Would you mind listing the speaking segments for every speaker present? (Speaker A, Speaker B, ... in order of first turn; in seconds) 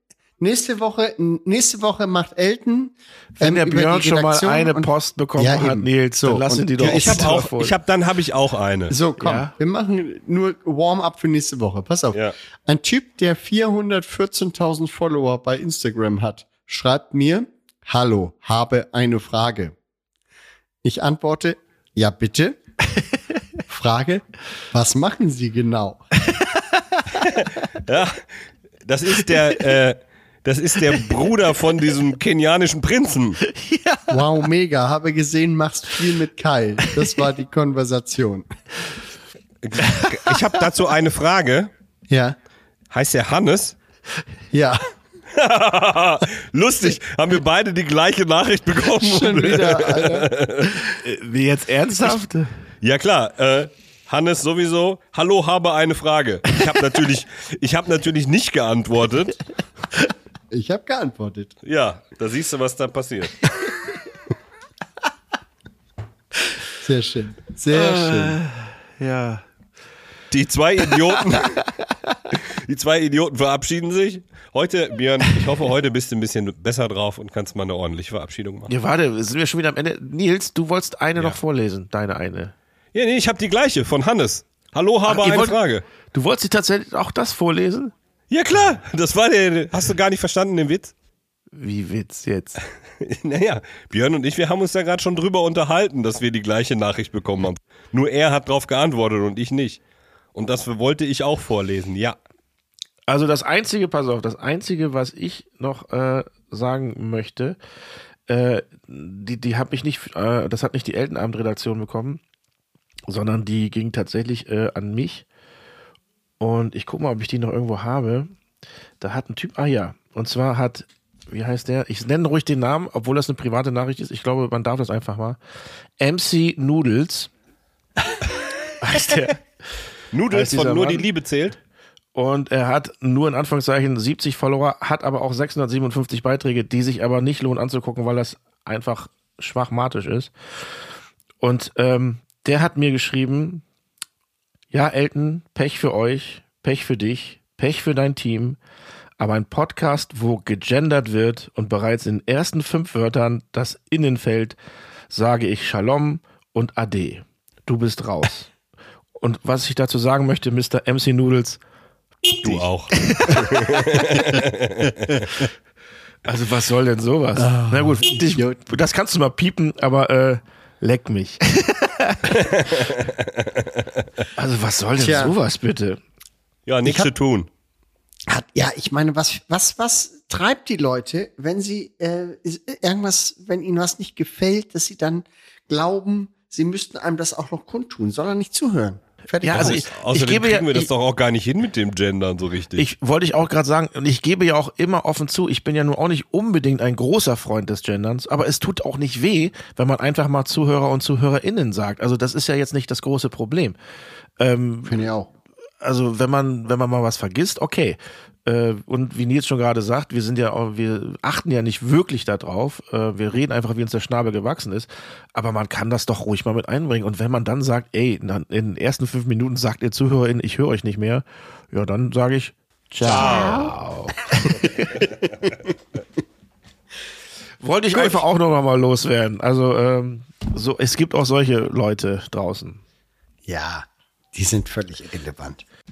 Speaker A: 0.4-7.4, 8.9-19.7, 20.8-22.6, 23.7-26.0, 34.1-38.5, 42.1-42.4, 44.5-44.8, 49.0-50.3, 60.5-61.5, 66.7-68.4, 167.4-168.6, 175.0-175.3, 176.8-177.1, 178.3-189.8, 204.8-205.3, 222.9-223.7, 225.4-225.7, 233.4-235.6
Speaker B: 3.3-7.8, 9.2-9.5, 26.4-27.0, 33.5-34.2, 39.8-40.3, 50.8-52.5, 67.7-69.4, 78.7-82.5, 85.0-85.6, 86.1-87.9, 91.5-92.6, 103.1-107.6, 108.3-112.2, 113.1-115.2, 116.4-118.3, 119.0-125.4, 126.0-127.3, 128.8-129.4, 130.3-131.0, 132.1-140.3, 141.4-143.6, 144.7-148.6, 149.2-154.6, 155.1-158.5, 159.2-161.6, 162.5-163.6, 166.2-172.6, 174.3-176.0, 189.4-190.9, 192.8-203.8, 204.4-205.1, 205.8-225.1, 227.6-232.8
Speaker C: 6.8-8.9, 27.3-28.2, 28.8-33.4, 39.6-41.7, 42.9-43.8, 45.3-50.9, 52.8-59.4, 61.6-63.4, 70.3-71.6, 72.3-78.7, 82.9-85.8, 88.3-90.9, 93.0-99.8, 100.3-102.2, 130.1-131.6, 162.4-165.2, 172.6-173.8, 176.7-177.5, 189.5-192.8, 223.0-223.7